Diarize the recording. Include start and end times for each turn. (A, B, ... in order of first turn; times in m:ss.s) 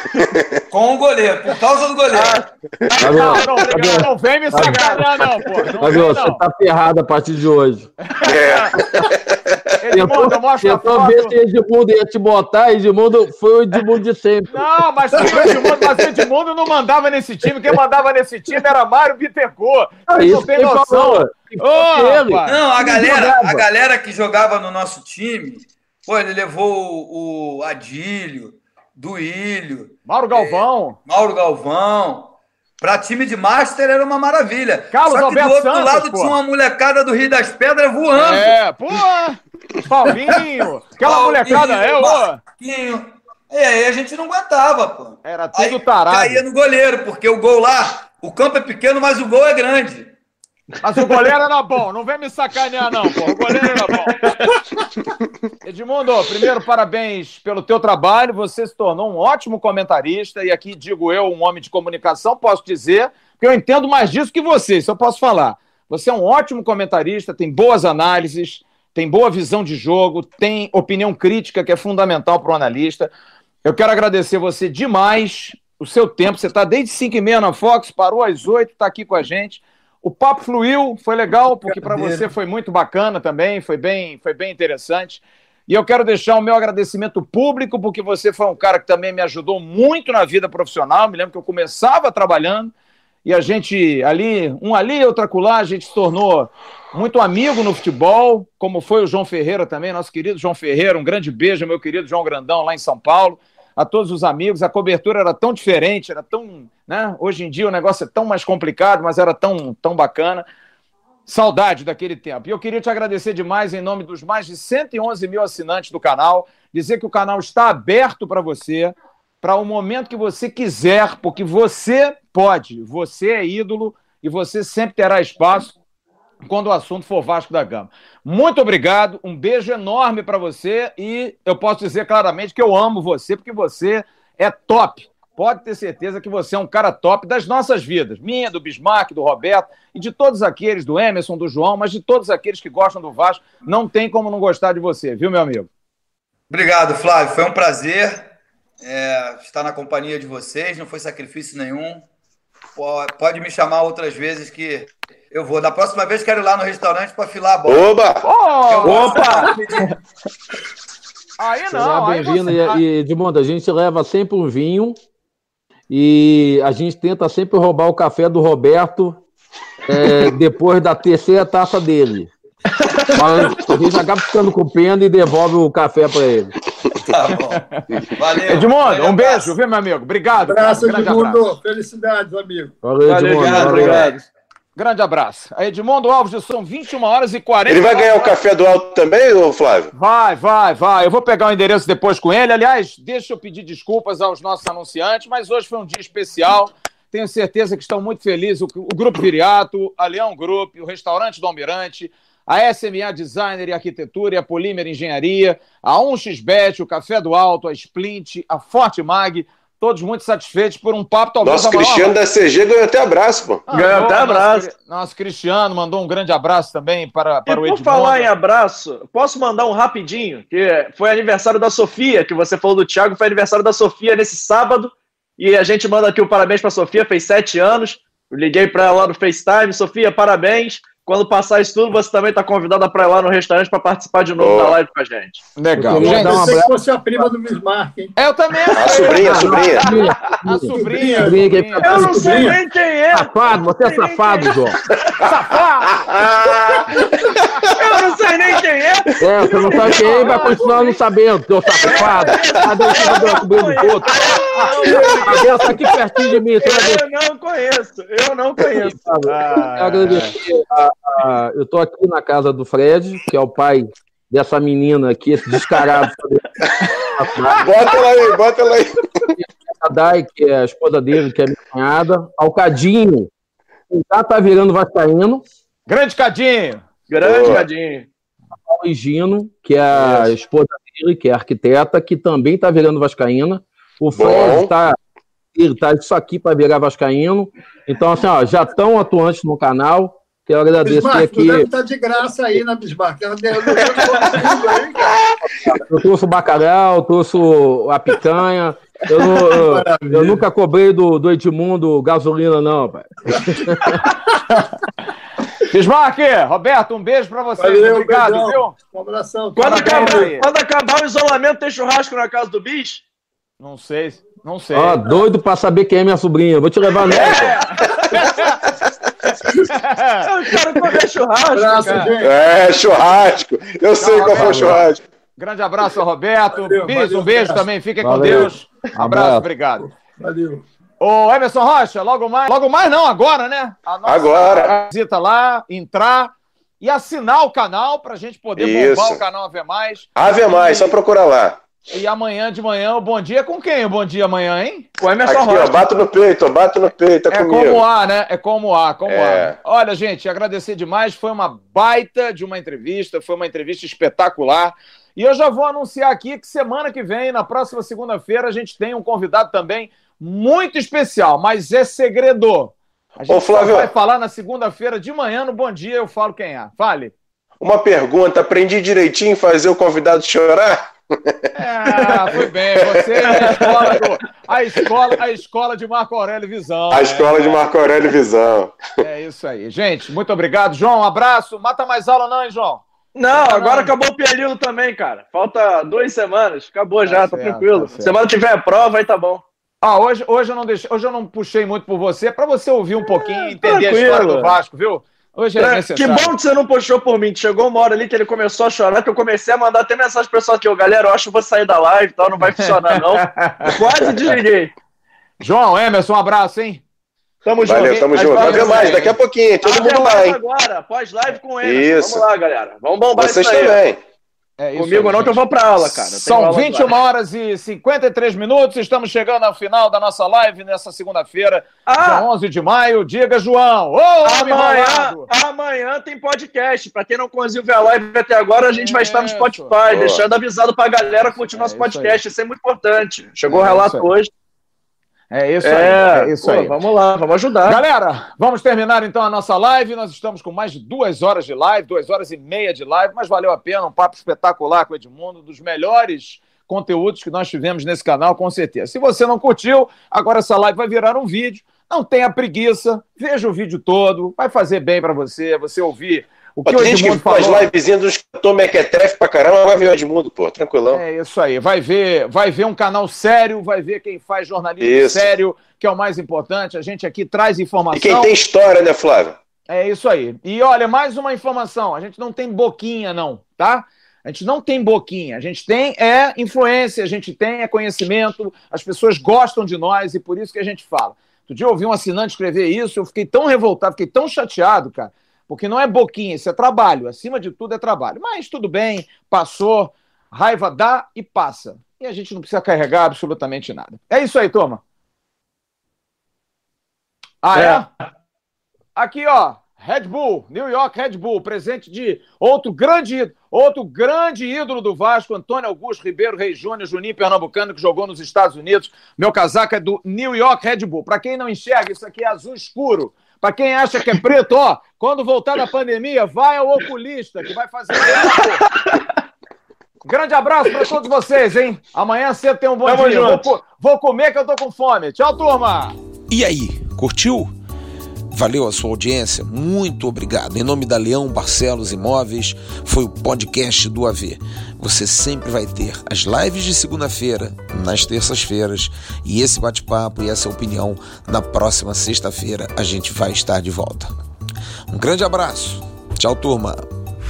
0:00.1-0:00.6 A
0:00.7-0:02.4 B
0:02.1-0:02.5 C
0:02.9-0:06.4 D
0:03.0-0:04.9 E
0:03.4-0:04.0 C
0:04.6-0:05.0 C
0:05.8-0:07.9 E
0:08.0-0:08.8 D
0:08.2-0:09.4 A
0:09.8-0:11.4 D
0:09.9-0:15.5 E
0:14.5-0:22.6 D
0:20.1-0:23.6 E
0:22.5-0:38.5 B
0:30.1-0:31.0 D
0:34.9-0:36.4 D
0:38.2-0:42.4 D
0:41.0-0:50.1 B
0:45.2-0:46.4 D
0:50.8-0:54.3 D
0:55.6-1:13.1 D
1:13.6-1:32.7 D
1:21.6-1:22.3 F
1:33.2-1:50.5 D
1:51.3-2:05.8 D
2:06.4-2:25.7 D
2:26.5-2:28.3 B
2:28.8-2:32.1 B
2:32.8-2:38.0 B
2:37.7-2:38.3 A
2:38.2-2:39.8 D
2:38.7-2:39.6 B
2:38.8-2:39.8 C
2:41.4-2:42.8 D
2:41.7-2:45.0 E
2:45.9-2:49.2 E
2:49.9-2:52.3 E
2:53.1-2:56.5 E
2:57.0-2:59.5 B
2:57.5-2:57.8 D
2:58.5-3:01.5 D
3:00.4-3:02.8 F
3:02.8-3:04.1 E
3:03.1-3:04.2 C
3:03.4-3:04.1 D
3:03.4-3:04.1 B
3:04.8-3:08.4 D
3:07.7-3:09.9 A
3:09.9-3:32.2 D
3:31.4-3:33.6 A
3:33.7-3:38.3 D
3:33.7-3:34.7 C
3:37.5-3:55.4 C
3:54.4-3:54.8 A
3:55.6-3:56.6 D
3:55.8-3:56.7 E
3:55.9-3:58.2 F
3:58.2-4:02.1 D
3:58.7-3:59.9 A
3:59.1-4:02.6 E
4:00.5-4:02.6 F
4:01.8-4:04.7 C
4:03.1-4:04.8 E
4:05.2-4:06.1 D
4:05.9-4:07.7 A
4:07.8-4:10.6 C
4:09.2-4:17.0 E
4:09.8-4:11.0 D
4:11.8-4:19.0 C
4:14.6-4:15.5 D
4:18.6-4:27.9 E
4:19.2-4:20.4 D
4:27.6-4:29.3 A
4:29.4-4:33.3 E
4:33.9-4:35.4 E
4:35.9-4:36.9 D
4:37.1-4:38.1 C
4:37.2-4:37.6 A
4:38.7-4:45.0 E
4:44.2-4:44.7 A
4:45.6-4:51.7 E
4:50.8-4:55.2 F
4:55.5-5:04.0 E
4:59.2-5:00.4 F
5:03.3-5:03.6 F
5:04.3-5:04.7 D
5:05.6-5:08.8 D
5:07.6-5:10.3 F
5:09.6-5:13.0 C
5:09.6-5:10.5 D
5:13.6-5:15.2 D
5:14.7-5:17.6 E
5:17.1-5:18.6 D
5:17.3-5:17.6 C
5:19.4-5:19.7 A
5:19.7-5:20.3 D
5:20.2-5:22.2 C
5:21.5-5:22.3 F
5:21.8-5:22.1 D
5:22.2-5:25.0 A
5:24.0-5:29.9 D
5:24.4-5:24.7 E
5:26.5-5:27.7 F
5:28.0-5:29.5 E
5:29.8-5:30.6 F
5:31.0-5:41.0 D
5:34.1-5:34.8 A
5:38.6-5:39.2 A
5:40.2-5:41.6 A
5:41.9-5:45.9 D
5:45.2-5:45.5 C
5:45.2-5:47.8 A
5:47.3-6:07.1 D
5:49.1-5:49.6 A
6:03.3-6:03.9 A
6:07.6-6:11.3 A
6:11.5-6:17.7 D
6:12.9-6:13.6 A
6:13.3-6:14.0 C
6:16.9-6:18.8 A
6:19.0-6:23.9 D
6:23.2-6:29.4 C
6:27.0-6:28.2 D
6:29.8-6:36.3 D
6:33.2-6:34.6 C
6:35.6-6:44.7 C
6:42.4-6:44.3 D
6:45.4-6:46.8 D
6:47.4-6:53.8 C
6:47.6-6:50.4 A
6:47.7-6:49.2 D
6:51.6-6:52.3 A
6:53.1-6:54.0 A
6:54.6-7:05.3 D
6:54.8-6:57.0 C
7:01.9-7:02.3 C
7:04.2-7:14.3 C
7:08.7-7:09.7 D
7:09.9-7:10.2 A
7:11.3-7:12.2 D
7:13.5-7:14.1 D
7:15.3-7:16.8 D
7:15.6-7:17.8 C
7:17.6-7:37.7 D
7:36.6-7:41.0 A
7:40.9-7:48.3 D
7:44.8-7:45.3 A
7:48.0-7:49.4 A
7:49.7-8:14.8 D
8:17.4-8:17.9 D
8:17.5-8:17.9 C
8:19.0-8:38.7 D
8:38.1-8:39.0 C
8:40.0-8:46.0 D
8:42.8-8:43.5 C
8:46.3-8:47.5 G
8:48.3-9:04.1 G
9:04.9-9:06.9 G